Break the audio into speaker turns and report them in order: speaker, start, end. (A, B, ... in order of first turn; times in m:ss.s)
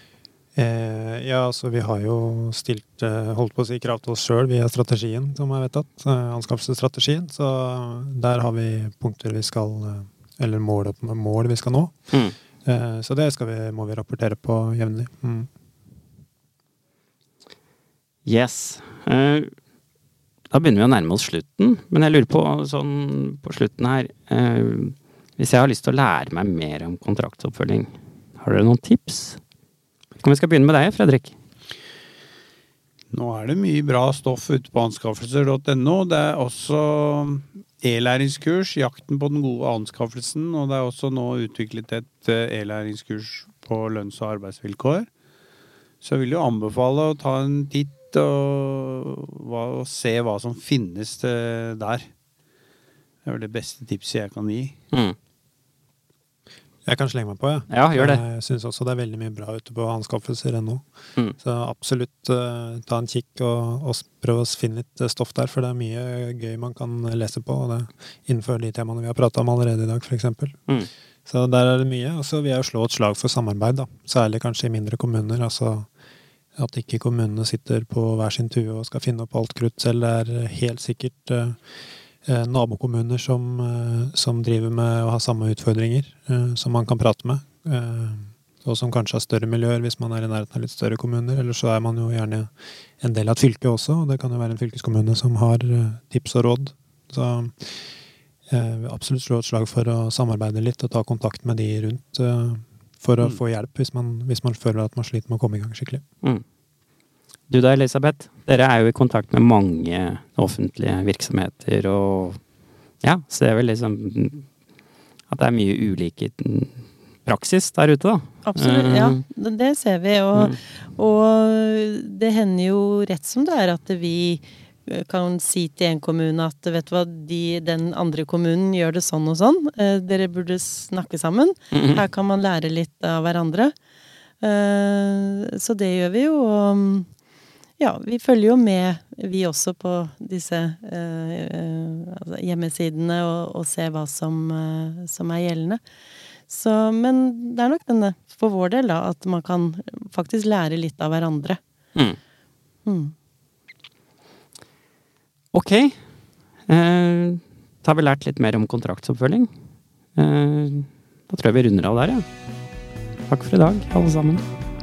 0:00.5-0:11.9 A
0:12.6-0:15.5 A
0:18.2-0:19.5 B
0:20.5-0:29.4 B
0:30.2-0:31.3 B
0:33.1-0:45.1 C
0:46.0-0:52.1 C
0:53.2-0:54.8 C
0:54.9-0:55.2 B
0:56.8-1:00.8 A
0:57.7-0:58.2 B
1:01.4-1:10.6 A
1:11.2-1:15.9 A
1:16.6-1:21.6 A
1:22.2-1:37.9 A
1:38.5-1:46.0 A
1:47.5-1:52.4 B
1:53.0-1:54.5 B
1:55.3-1:59.2 B
1:58.4-2:13.7 D
2:11.7-2:12.0 B
2:14.4-2:17.1 D
2:17.8-2:25.8 D
2:26.5-2:31.6 D
2:32.8-2:33.1 D
2:35.5-2:36.0 B
2:36.7-2:39.5 B
2:40.1-2:42.2 B
2:43.3-2:44.4 B